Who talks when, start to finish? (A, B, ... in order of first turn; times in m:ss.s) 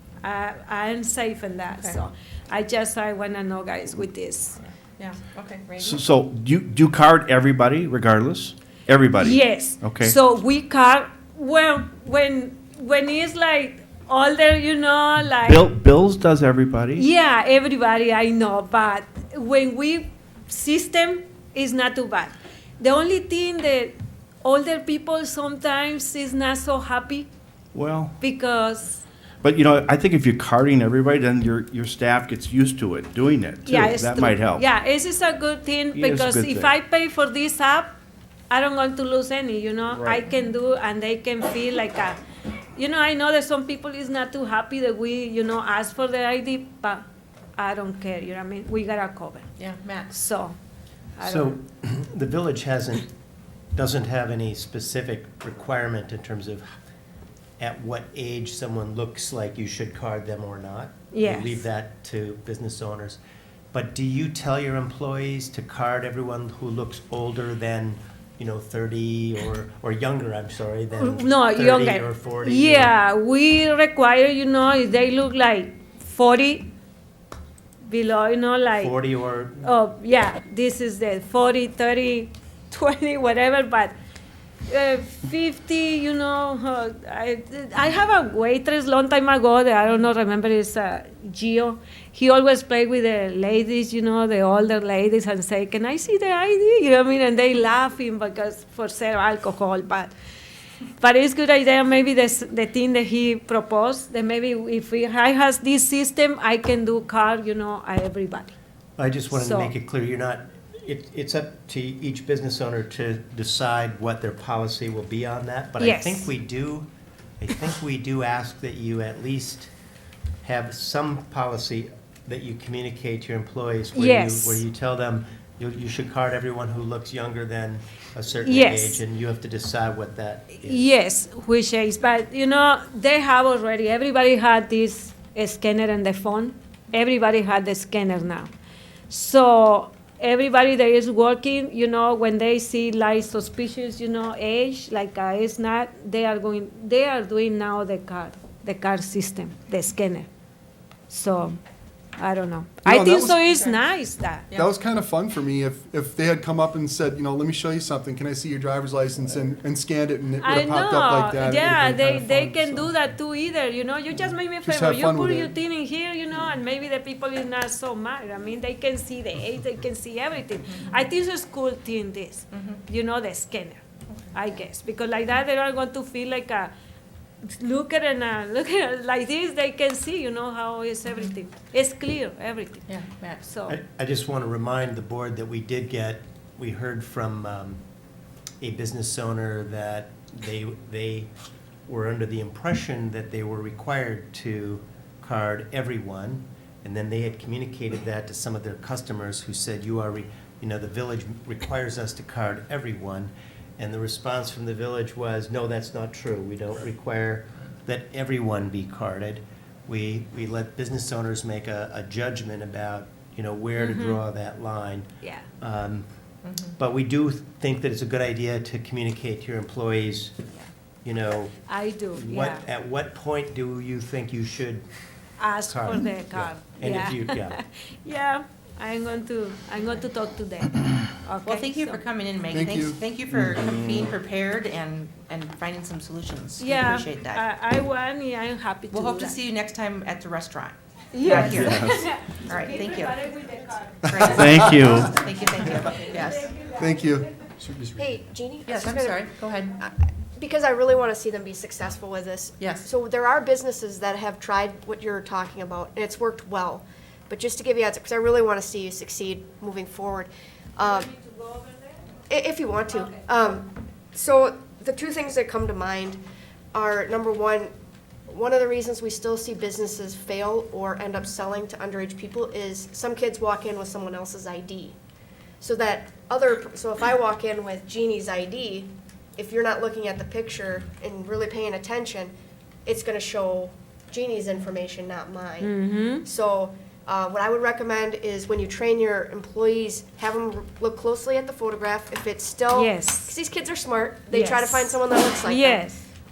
0:00.2-0:04.6 A
0:05.0-0:06.0 B
0:05.8-0:10.1 C
0:09.2-0:15.7 A
0:15.4-0:17.0 C
0:16.9-0:27.3 A
0:27.7-0:28.1 C
0:28.2-0:29.0 A
0:29.4-0:34.6 C
0:33.6-0:37.9 A
0:35.9-0:36.7 C
0:38.5-0:42.2 A
0:39.9-0:40.2 C
0:42.8-0:47.0 A
0:47.6-0:49.5 A
0:49.6-0:50.1 B
0:50.1-0:50.6 A
0:51.2-0:51.6 A
0:51.2-0:53.1 D
0:53.7-0:56.6 D
0:57.6-1:03.2 D
1:01.1-1:01.6 A
1:03.7-1:12.9 D
1:11.0-1:16.7 A
1:17.9-1:18.9 A
1:18.8-1:19.7 D
1:19.6-1:24.0 A
1:24.7-1:40.1 A
1:41.0-1:48.5 A
1:49.0-1:56.9 D
1:49.3-1:49.7 A
1:55.8-1:56.3 A
1:57.4-1:59.7 D
2:00.4-2:10.9 D
2:04.0-2:04.6 A
2:08.4-2:09.0 A
2:10.6-2:18.5 A
2:19.1-2:30.3 A
2:31.1-2:31.6 A
2:32.2-2:34.5 A
2:32.8-2:33.5 E
2:33.5-2:33.8 B
2:34.5-2:42.9 E
2:40.4-2:56.7 A
2:44.6-2:45.6 E
2:52.5-2:52.8 B
2:57.5-3:02.9 A
3:02.9-3:03.4 B
3:03.5-3:03.8 A
3:03.7-3:07.8 D
3:08.6-3:11.3 D
3:11.9-3:35.1 D
3:33.8-3:34.2 A
3:35.2-3:35.5 A
3:35.6-3:36.1 D
3:36.4-3:36.7 B
3:36.8-3:40.4 D
3:41.0-3:41.6 D
3:41.7-3:42.6 A
3:42.1-3:44.8 D
3:45.4-3:52.0 A
3:45.6-3:47.6 D
3:51.5-3:57.4 B
3:52.5-3:53.0 E
3:56.6-3:59.4 A
3:58.9-4:06.6 B
4:01.1-4:04.2 A
4:01.2-4:02.1 C
4:04.1-4:04.9 E
4:04.2-4:05.2 C
4:06.3-4:06.6 A
4:06.7-4:08.2 E
4:08.0-4:21.1 F
4:08.6-4:09.8 B
4:12.6-4:12.9 B
4:21.1-4:21.4 A
4:22.3-4:26.2 F
4:26.7-4:27.7 F
4:28.3-4:35.0 F
4:35.6-4:42.3 F
4:42.9-4:55.8 F
4:45.6-4:46.2 A
4:52.7-4:53.4 A
4:54.3-4:56.1 A